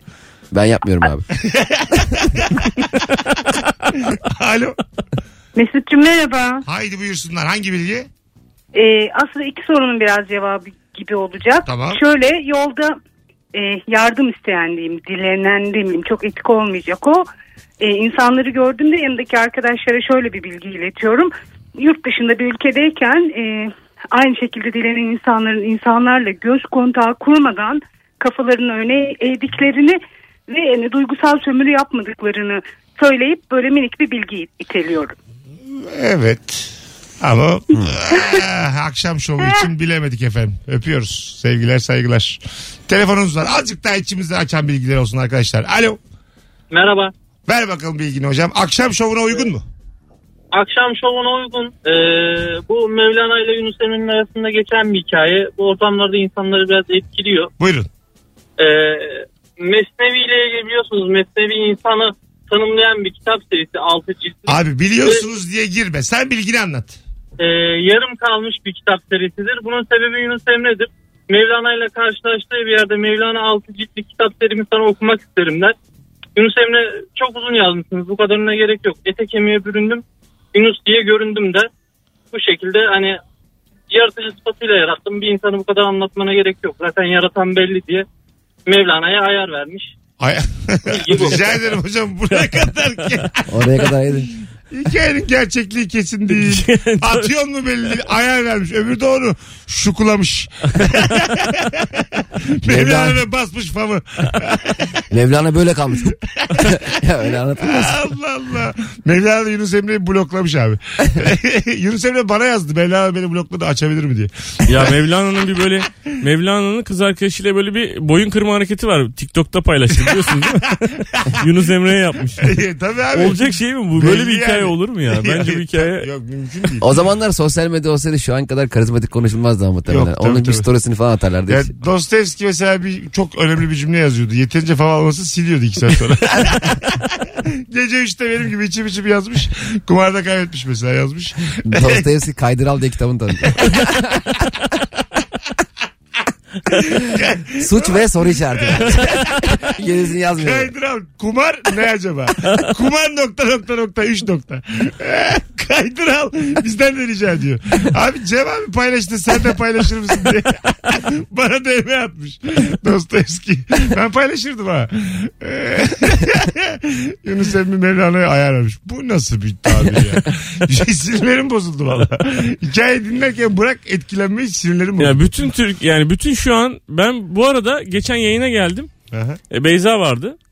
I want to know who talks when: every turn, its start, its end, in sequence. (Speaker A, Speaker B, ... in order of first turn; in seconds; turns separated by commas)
Speaker A: 0.5-1.3, Speaker B: 1.4-2.6, Speaker B: 3.9-4.8, Speaker C: 5.5-6.6, Speaker B: 6.6-8.1, Speaker C: 8.7-13.0, Speaker B: 11.7-12.0, Speaker C: 13.5-17.3, Speaker C: 17.8-35.1, Speaker B: 35.7-46.0, Speaker D: 46.7-47.1, Speaker B: 47.5-49.6, Speaker D: 50.5-57.5, Speaker B: 57.6-57.9, Speaker D: 58.6-65.2, Speaker B: 64.5-67.0, Speaker D: 67.4-75.7, Speaker D: 76.3-80.0, Speaker D: 80.5-81.7, Speaker D: 82.3-83.2, Speaker D: 83.9-88.0, Speaker D: 88.7-89.9, Speaker B: 90.2-93.6, Speaker D: 90.9-91.5, Speaker A: 93.5-94.3, Speaker B: 94.7-105.0, Speaker E: 96.3-97.3, Speaker A: 102.6-103.2, Speaker A: 105.1-108.1, Speaker B: 106.3-106.8, Speaker B: 107.6-114.9, Speaker E: 114.6-122.6, Speaker B: 120.0-121.4, Speaker B: 122.4-126.9, Speaker E: 123.1-126.1, Speaker A: 126.8-131.7, Speaker B: 129.9-130.7, Speaker B: 131.5-142.0, Speaker A: 141.6-144.2, Speaker B: 143.5-143.9, Speaker B: 146.7-148.0, Speaker A: 147.5-150.7, Speaker B: 148.6-149.7, Speaker B: 150.4-175.3, Speaker E: 175.0-178.9, Speaker B: 179.1-179.4, Speaker E: 179.5-180.3